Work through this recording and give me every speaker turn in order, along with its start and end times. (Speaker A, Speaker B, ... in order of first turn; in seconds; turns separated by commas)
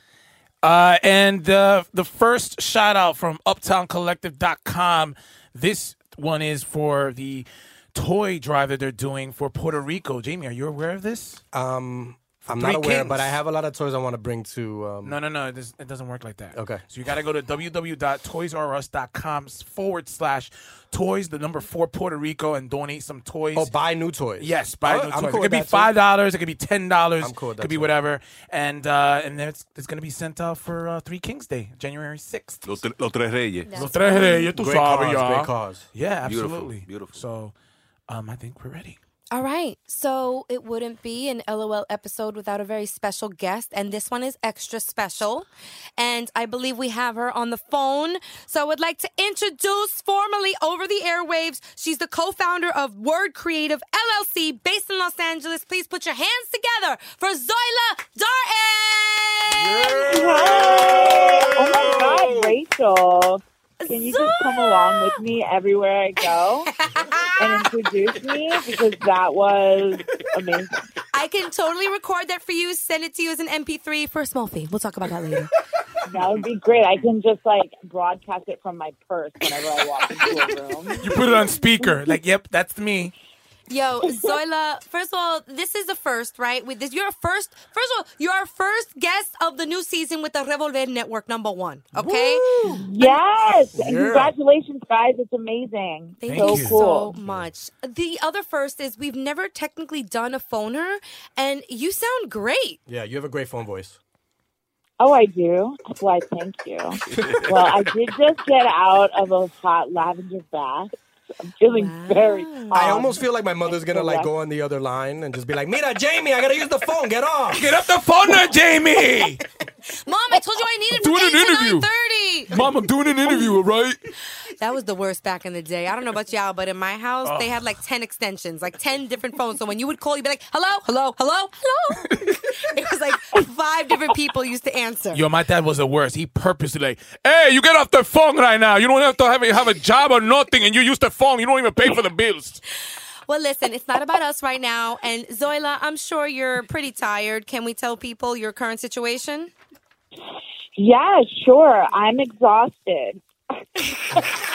Speaker A: 0.6-11.4, Speaker B: 11.5-15.2, Speaker A: 12.4-13.4, Speaker A: 15.0-23.7, Speaker B: 16.5-16.8, Speaker B: 23.5-25.9, Speaker A: 24.4-32.7, Speaker B: 27.2-27.9, Speaker C: 32.6-33.7, Speaker D: 33.6-34.5, Speaker A: 33.7-37.5, Speaker B: 34.5-35.9, Speaker C: 36.2-37.2, Speaker A: 38.1-39.0, Speaker D: 39.3-60.2, Speaker B: 59.5-62.1, Speaker E: 60.1-66.7, Speaker D: 63.8-65.2, Speaker D: 66.2-67.7, Speaker E: 67.4-70.8, Speaker D: 71.1-75.5, Speaker E: 76.0-81.0, Speaker A: 81.0-83.1, Speaker D: 83.7-93.2, Speaker A: 91.9-92.8, Speaker E: 92.8-97.1, Speaker B: 93.7-94.3, Speaker D: 96.2-102.8, Speaker A: 96.2-96.8, Speaker B: 102.9-104.0, Speaker E: 105.0-110.9, Speaker E: 111.6-113.2, Speaker D: 111.7-113.0, Speaker B: 112.7-117.6, Speaker E: 113.8-114.3, Speaker A: 117.5-119.4, Speaker D: 119.9-122.6, Speaker A: 120.9-121.9, Speaker A: 122.5-124.0, Speaker D: 124.6-135.2, Speaker A: 127.2-127.6, Speaker A: 135.1-142.6, Speaker D: 142.8-149.5, Speaker E: 150.8-153.2